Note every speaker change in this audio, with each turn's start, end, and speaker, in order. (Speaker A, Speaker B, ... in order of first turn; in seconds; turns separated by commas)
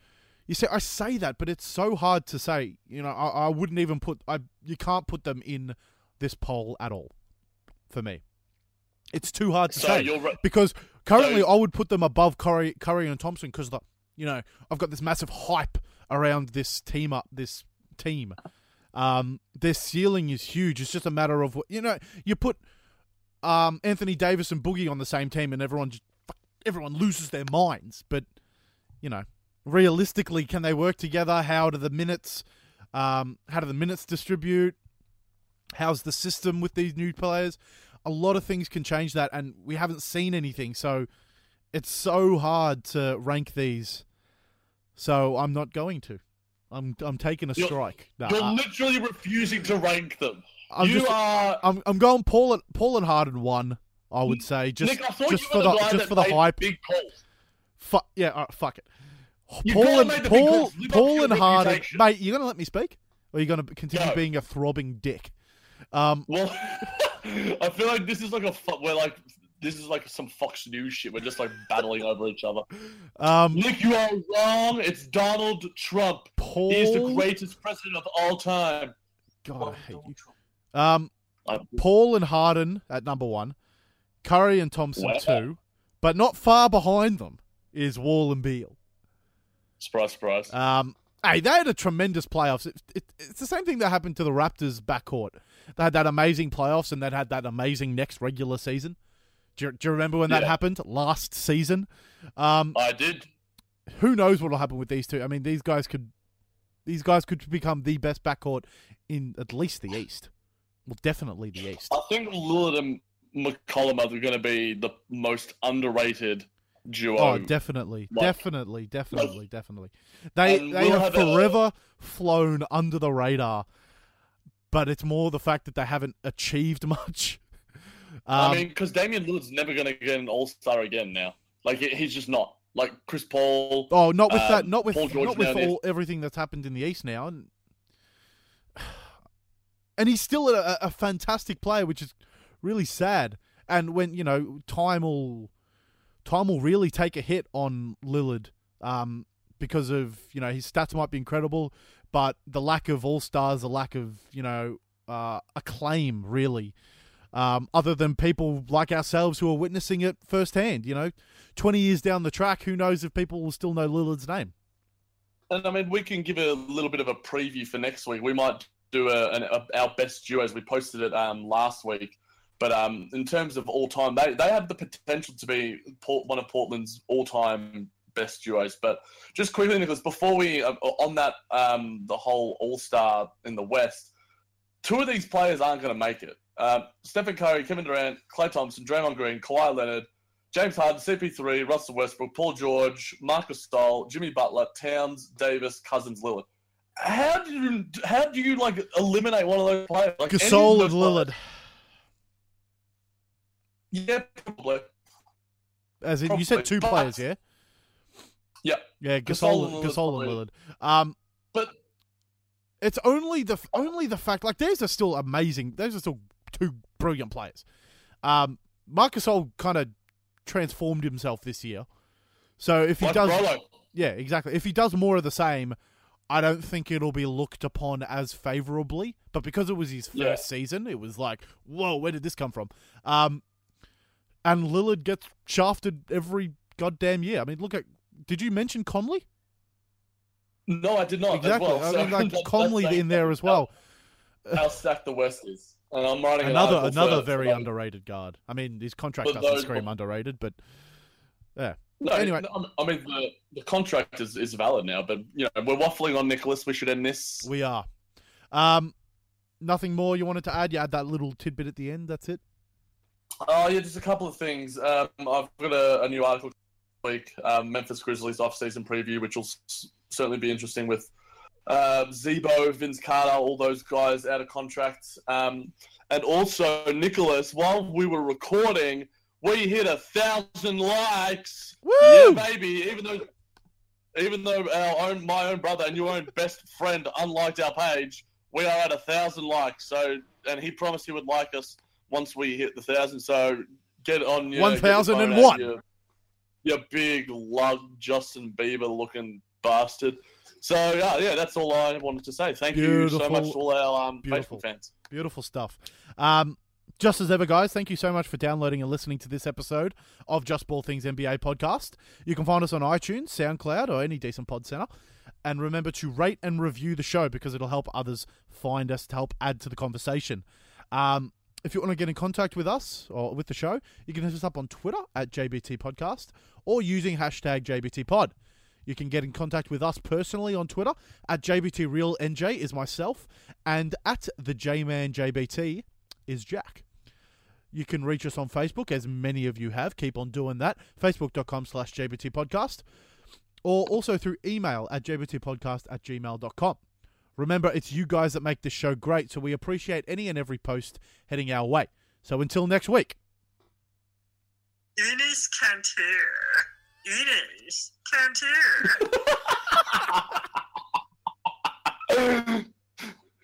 Speaker A: 0.5-7.1, Speaker A: 7.9-8.2, Speaker A: 9.1-18.4, Speaker B: 9.7-10.4, Speaker B: 11.2-11.5, Speaker A: 18.9-22.6, Speaker A: 23.4-28.3, Speaker A: 29.0-34.8, Speaker A: 35.7-41.1, Speaker A: 41.7-44.0, Speaker A: 45.0-48.6, Speaker B: 47.6-51.6, Speaker A: 50.7-56.6, Speaker B: 54.3-57.2, Speaker A: 57.8-58.9, Speaker A: 59.5-65.3, Speaker B: 59.6-62.0, Speaker B: 63.9-64.2, Speaker A: 65.9-66.3, Speaker B: 66.3-72.7, Speaker A: 73.2-73.7, Speaker B: 73.5-79.0, Speaker A: 76.4-77.3, Speaker A: 79.4-80.2, Speaker B: 79.6-80.2, Speaker A: 80.7-81.1, Speaker B: 81.5-81.8, Speaker A: 81.7-83.6, Speaker A: 84.2-88.8, Speaker B: 85.0-85.4, Speaker B: 89.8-90.5, Speaker A: 90.5-99.0, Speaker A: 99.6-102.8, Speaker B: 100.3-100.5, Speaker B: 102.7-103.3, Speaker A: 103.9-106.1, Speaker A: 106.9-110.3, Speaker A: 110.9-112.0, Speaker B: 111.9-117.5, Speaker A: 117.2-123.7, Speaker B: 118.1-118.4, Speaker B: 119.1-119.4, Speaker B: 120.5-121.6, Speaker A: 124.7-127.4, Speaker A: 128.3-128.7, Speaker B: 128.3-135.8, Speaker A: 133.9-137.5, Speaker A: 138.8-139.1, Speaker A: 140.0-145.5, Speaker A: 146.2-156.8, Speaker A: 157.3-164.5, Speaker B: 165.5-184.1, Speaker B: 184.8-196.5, Speaker B: 197.0-201.3, Speaker A: 200.3-201.4, Speaker B: 203.9-204.9, Speaker A: 206.0-207.4, Speaker B: 206.3-207.2, Speaker B: 208.6-210.4, Speaker A: 209.0-211.2, Speaker A: 212.8-217.7, Speaker A: 218.2-219.9, Speaker A: 220.4-221.9, Speaker A: 222.6-225.8, Speaker B: 223.0-223.6, Speaker A: 226.3-233.4, Speaker B: 230.1-230.4, Speaker A: 234.4-239.3, Speaker B: 240.7-243.7, Speaker A: 241.3-243.7, Speaker B: 244.5-247.7, Speaker A: 246.4-250.6, Speaker B: 249.2-249.8, Speaker A: 251.6-252.5, Speaker B: 252.0-257.5, Speaker A: 257.4-257.9, Speaker A: 258.5-258.9, Speaker A: 259.6-262.4, Speaker B: 263.4-271.1, Speaker B: 271.7-283.3, Speaker A: 281.8-282.5, Speaker B: 284.1-295.8, Speaker A: 294.5-295.7, Speaker B: 296.6-304.9, Speaker A: 302.7-303.6, Speaker A: 304.2-314.9, Speaker A: 315.4-328.3, Speaker A: 328.9-336.9, Speaker A: 337.7-342.9, Speaker A: 343.6-346.8, Speaker A: 347.4-353.2, Speaker C: 355.0-359.2, Speaker B: 362.1-362.6